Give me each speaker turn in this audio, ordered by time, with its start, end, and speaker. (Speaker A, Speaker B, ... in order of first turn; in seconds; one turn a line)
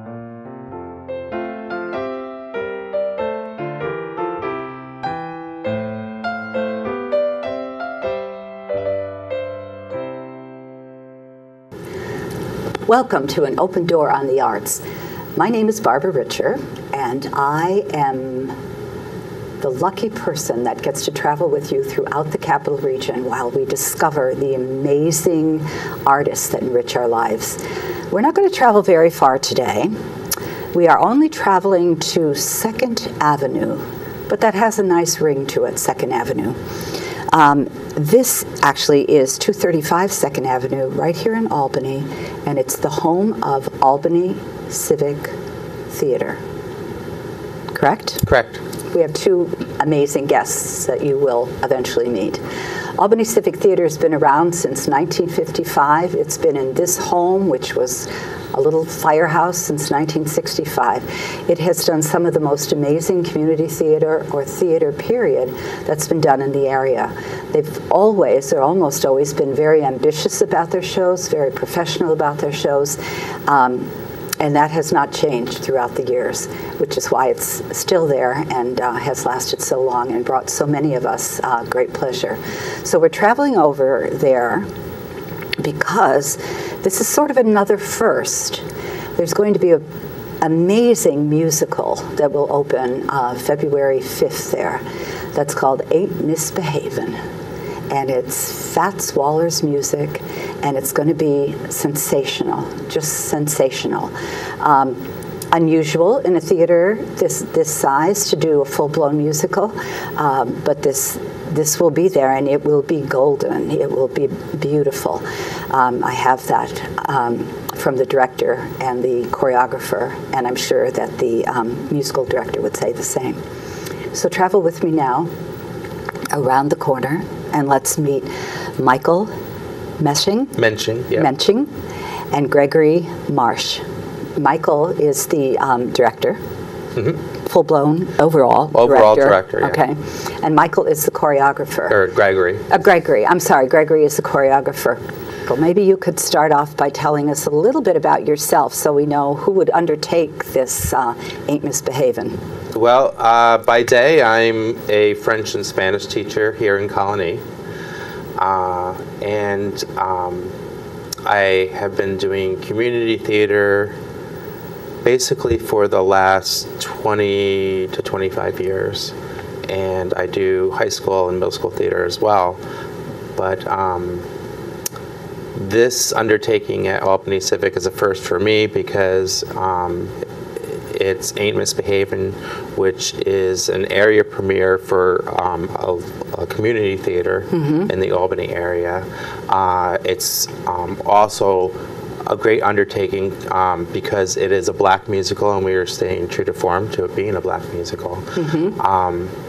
Speaker A: 12.9-14.8
Speaker A: 15.3-18.6
Speaker A: 19.6-27.6
Speaker A: 28.1-29.9
Speaker A: 30.7-36.6
Speaker A: 37.3-45.3
Speaker A: 45.9-46.4
Speaker A: 47.7-48.2
Speaker B: 48.2-48.6
Speaker A: 48.9-52.4
Speaker A: 53.0-73.9
Speaker A: 74.4-84.7
Speaker A: 85.6-88.6
Speaker A: 89.2-89.8
Speaker A: 90.4-94.8
Speaker A: 95.3-97.2
Speaker A: 97.9-123.4
Speaker A: 124.1-125.3
Speaker A: 126.3-129.3
Speaker A: 130.0-130.6
Speaker B: 130.6-131.3
Speaker A: 131.1-131.7
Speaker A: 132.3-133.8
Speaker A: 134.4-136.4
Speaker B: 136.9-137.2
Speaker A: 137.4-142.0
Speaker B: 138.7-139.8
Speaker B: 141.9-142.7
Speaker A: 142.7-152.4
Speaker B: 152.7-157.4
Speaker B: 158.4-160.5
Speaker B: 161.2-163.9
Speaker B: 165.0-169.1
Speaker B: 169.7-172.6
Speaker B: 173.3-174.2
Speaker B: 175.6-180.1
Speaker B: 180.7-191.7
Speaker A: 187.5-187.9
Speaker B: 192.2-199.3
Speaker A: 198.3-198.7